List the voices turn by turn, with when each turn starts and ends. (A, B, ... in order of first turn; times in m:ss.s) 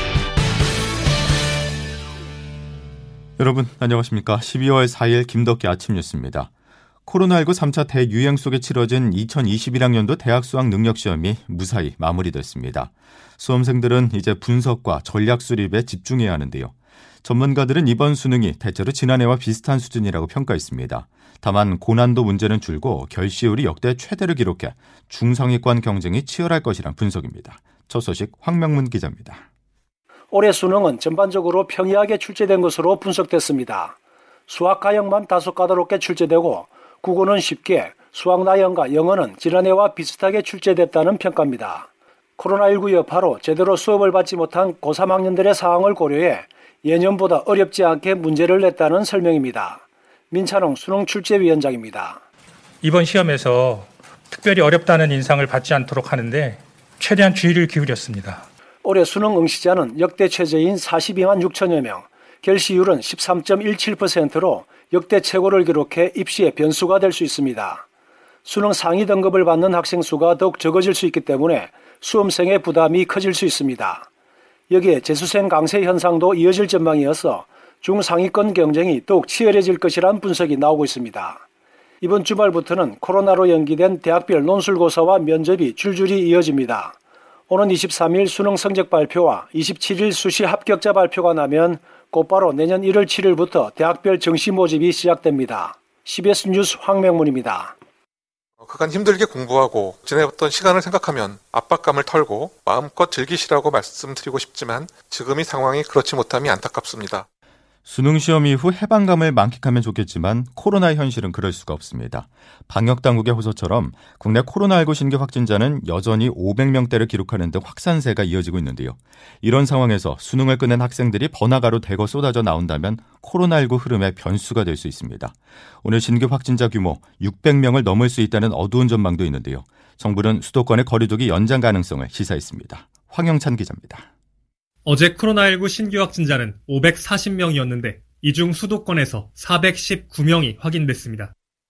0:03.4-0:06.5 A
0:07.0-0:16.7 A
0:17.2-0:29.4 A
0:30.3-0:34.0 B
0:34.5-0:52.2 B
0:52.8-0:58.4 C
0:58.8-1:07.8 B
1:08.4-1:14.1 B
1:14.7-1:21.4 B
1:22.0-1:27.0 B
1:27.5-1:37.8 B
1:38.6-1:47.2 D
1:47.8-2:14.1 A
2:14.8-2:21.3 E